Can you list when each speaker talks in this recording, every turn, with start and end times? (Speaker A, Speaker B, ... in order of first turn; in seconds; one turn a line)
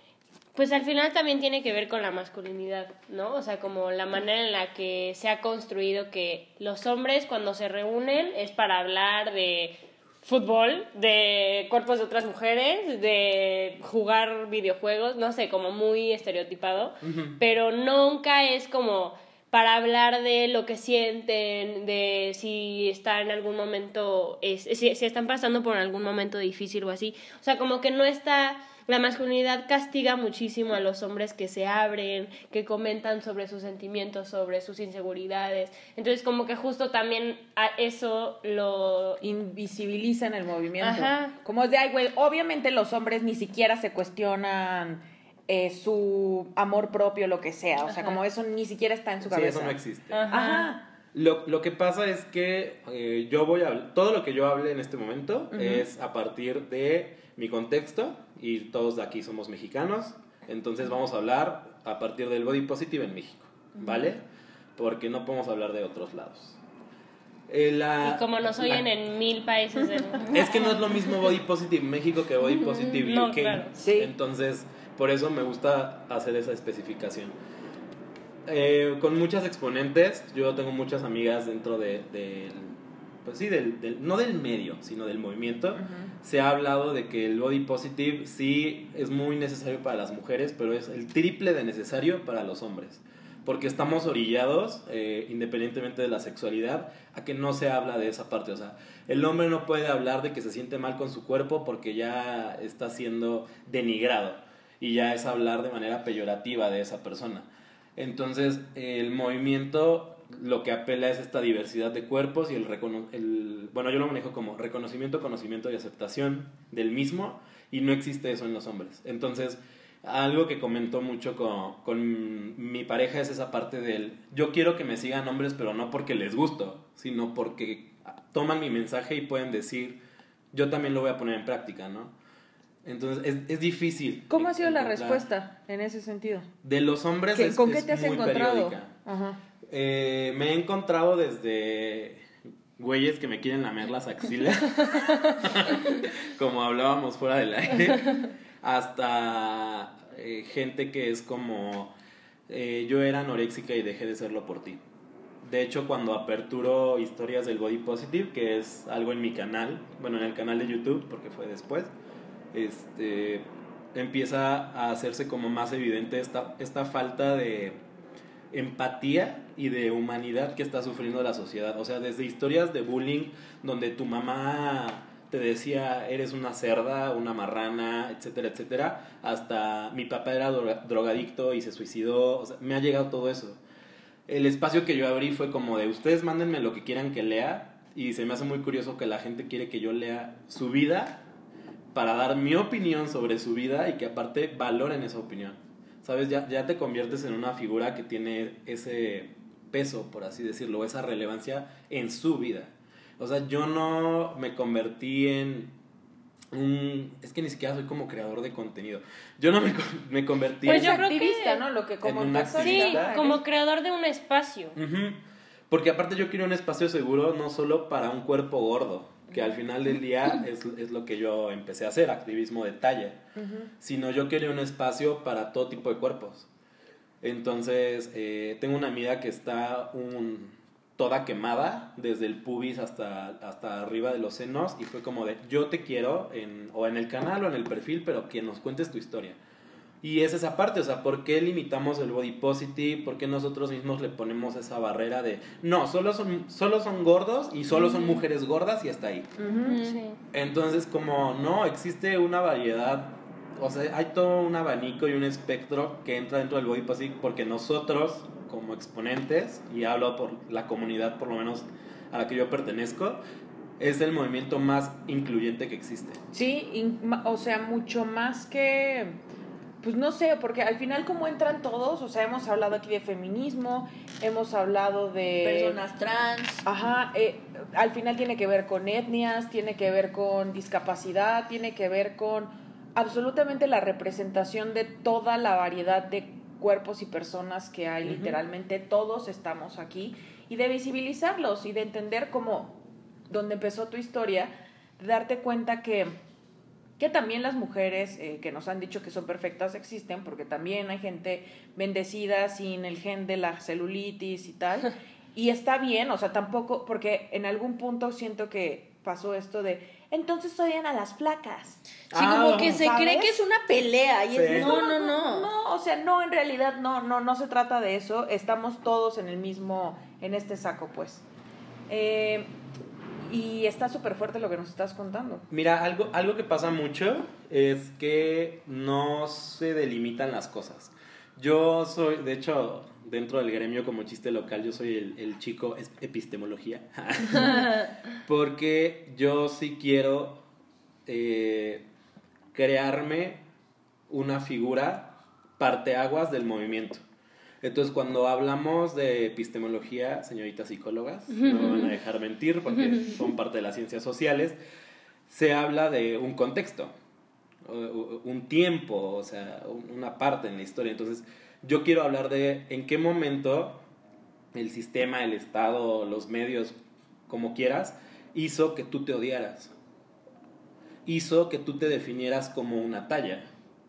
Speaker A: 0.6-39.2
Speaker B: 17.0-17.4
Speaker C: 39.2-50.8
Speaker A: 40.8-41.3
Speaker A: 47.9-48.2
Speaker B: 49.3-50.2
Speaker A: 50.1-50.7
Speaker B: 51.1-64.2
Speaker C: 55.5-55.9
Speaker D: 63.8-64.1
Speaker B: 64.8-66.6
Speaker B: 67.5-68.8
Speaker A: 68.0-70.8
Speaker B: 70.3-77.3
Speaker A: 72.5-73.8
Speaker C: 73.8-74.1
Speaker B: 78.5-130.0
Speaker C: 85.7-86.1
Speaker B: 130.5-132.1
Speaker B: 132.8-135.3
Speaker C: 134.3-136.5
Speaker B: 136.6-138.9
Speaker C: 137.3-139.4
Speaker B: 139.7-151.9
Speaker B: 152.5-154.8
Speaker B: 155.4-161.9
Speaker B: 162.5-167.8
Speaker B: 168.5-183.6
Speaker B: 184.3-191.3
Speaker B: 191.9-205.8
Speaker B: 206.5-211.0
Speaker A: 210.6-211.6
Speaker C: 210.7-213.4
Speaker B: 212.0-213.2
Speaker A: 212.6-214.8
Speaker B: 214.8-223.2
Speaker C: 223.4-223.7
Speaker B: 223.8-226.5
Speaker B: 227.2-239.4
Speaker B: 240.0-249.3
Speaker C: 249.4-249.8
Speaker D: 249.6-250.0
Speaker A: 249.7-250.2
Speaker B: 250.3-263.2
Speaker B: 263.8-266.2
Speaker C: 266.3-269.2
Speaker C: 269.8-275.8
Speaker D: 275.4-276.6
Speaker C: 276.6-296.2
Speaker B: 288.1-288.4
Speaker C: 297.0-313.4
Speaker D: 312.1-315.5
Speaker B: 312.1-312.9
Speaker B: 314.3-314.8
Speaker C: 314.5-321.2
Speaker C: 321.9-322.5
Speaker C: 323.2-325.5
Speaker B: 325.5-340.4
Speaker B: 341.1-341.9
Speaker B: 342.5-343.4
Speaker B: 344.1-347.0
Speaker B: 347.6-354.6
Speaker A: 351.3-351.9
Speaker B: 355.3-356.9
Speaker B: 357.6-363.8
Speaker B: 364.5-366.8
Speaker B: 367.3-369.7
Speaker B: 371.1-373.5